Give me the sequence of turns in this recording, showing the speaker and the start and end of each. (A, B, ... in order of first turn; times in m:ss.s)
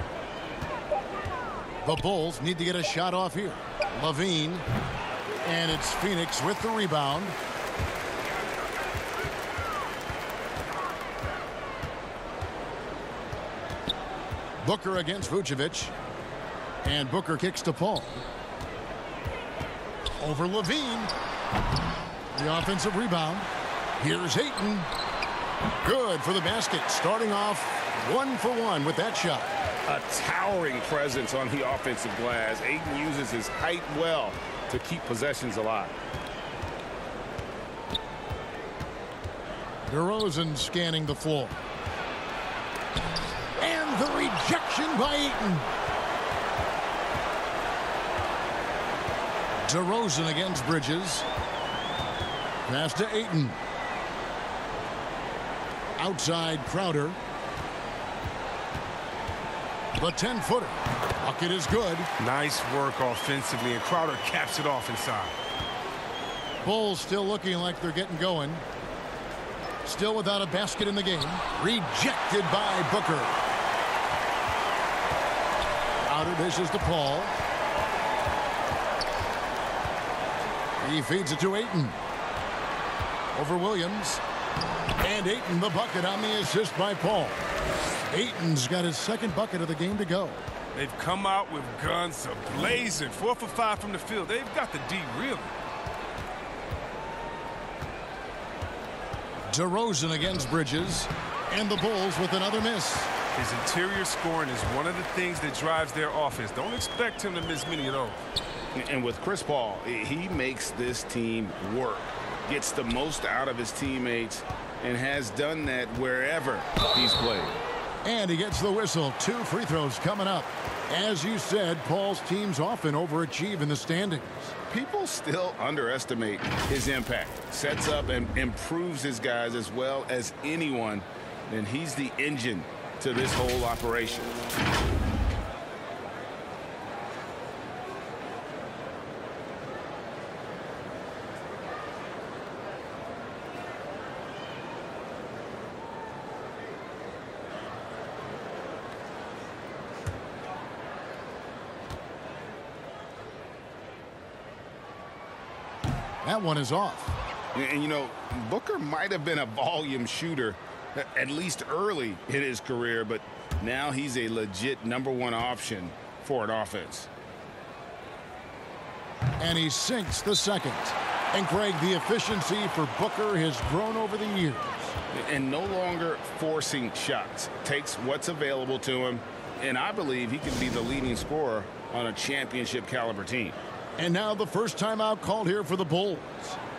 0:01.8-0:04.7 A
0:05.4-0:07.4 A
0:14.6-0:15.9 A
0:16.8-0:18.2 A
0:20.2-0:21.1 A
0:22.3-0:24.9 A
0:25.8-0:29.5 A
0:29.9-0:36.0 B
0:39.9-0:41.6 A
0:43.6-0:45.7 A
0:49.7-0:51.3 A
0:52.7-0:53.6 A
0:56.0-0:57.2 A
1:00.0-1:02.1 A
1:02.2-1:05.4 C
1:06.6-1:08.6 A
1:09.8-1:13.4 A
1:16.0-1:17.3 A
1:20.8-1:22.0 A
1:23.3-1:24.2 A
1:25.0-1:27.4 A
1:28.1-1:30.4 A
1:30.8-1:35.5 C
1:39.5-1:43.1 A
1:43.4-1:48.2 C
1:48.8-1:57.6 B
1:58.0-2:04.6 A
2:04.7-2:14.4 B
2:36.2-2:37.2 A
2:37.5-2:47.1 B
2:49.4-2:55.0 A
2:55.1-3:03.6 B
3:04.0-3:06.6 A